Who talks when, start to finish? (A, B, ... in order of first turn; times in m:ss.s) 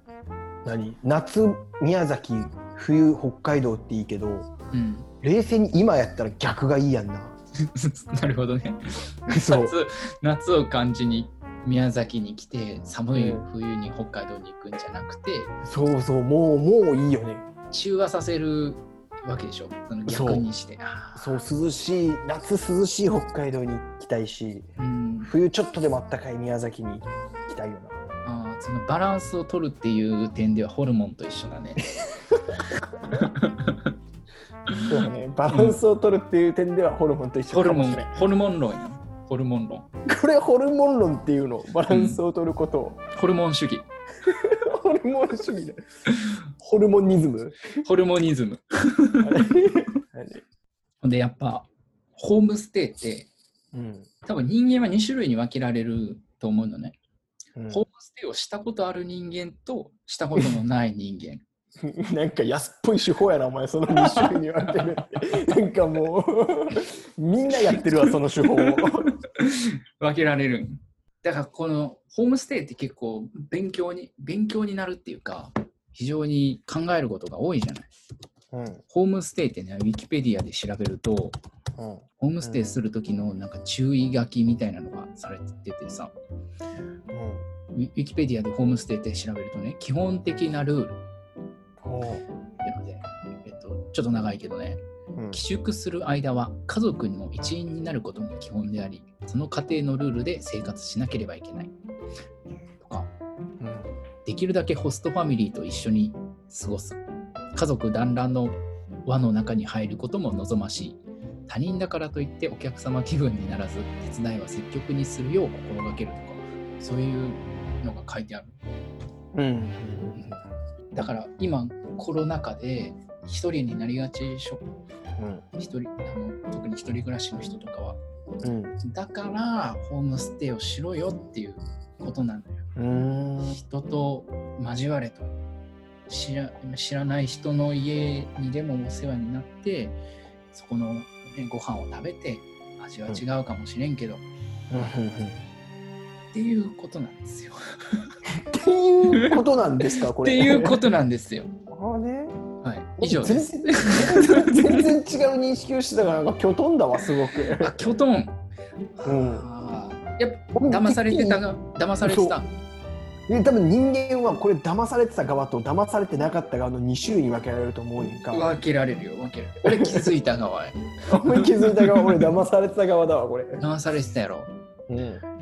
0:00.6-0:04.5 A
0:04.7-0:05.1 B
0:05.2-0:07.4 A
0:07.6-0:15.5 B
0:09.3-0:09.8 A
0:13.1-0:13.4 A
0:15.6-0:17.5 A
0:17.7-0:21.4 B
0:20.1-0:20.5 A
0:21.2-0:24.7 A
0:24.8-0:25.3 B
0:25.2-0:28.0 A
0:28.2-0:31.8 B
0:32.0-0:33.2 A
0:33.1-0:33.9 B
0:34.7-0:35.8 B
0:34.9-0:38.2 A
0:37.5-0:39.9 B
0:40.1-0:43.0 A
0:41.9-0:42.2 B
0:43.1-0:43.9 B
0:44.2-0:45.8 A
0:46.1-0:46.4 B
0:46.6-0:47.7 A
0:47.8-0:49.4 B
0:49.2-0:50.4 A
0:51.0-0:53.3 B
0:53.7-0:54.1 A
0:54.2-0:57.0 B
0:57.6-0:57.8 A
0:57.7-1:01.4 B
1:01.8-1:09.1 A
1:03.9-1:04.8 B
1:08.4-1:17.9 B
1:18.5-1:18.8 A
1:18.9-1:21.4 B
1:21.8-1:22.6 A
1:22.2-1:26.1 B
1:27.1-1:27.4 A
1:27.7-1:31.0 B
1:31.8-1:32.2 A
1:32.6-1:41.7 B
1:35.2-1:35.4 A
1:42.8-1:43.1 B
1:43.6-1:43.9 A
1:44.2-1:47.0 B
1:47.6-1:58.6 B
1:59.3-2:00.4 A
2:00.9-2:04.6 B
2:05.2-2:05.4 A
2:05.6-2:08.0 B
2:08.4-2:08.8 A
2:08.8-2:12.7 B
2:12.8-2:13.6 A
2:13.4-2:15.3 B
2:16.1-2:20.0 B
2:20.5-2:24.2 B
2:24.7-2:25.4 A
2:26.3-2:28.1 B
2:28.3-2:30.8 A
2:29.1-2:31.5 B
2:31.7-2:32.4 A
2:32.6-2:34.9 B
2:33.0-2:37.8 A
2:37.6-2:38.4 B
2:39.0-2:42.5 B
2:39.0-2:39.5 A
2:40.6-2:41.4 A
2:42.0-2:42.4 A
2:43.3-2:48.5 A
2:48.3-2:52.3 B
2:49.7-2:50.1 A
2:51.1-2:53.6 A
2:53.6-2:54.5 B
2:54.9-2:55.2 A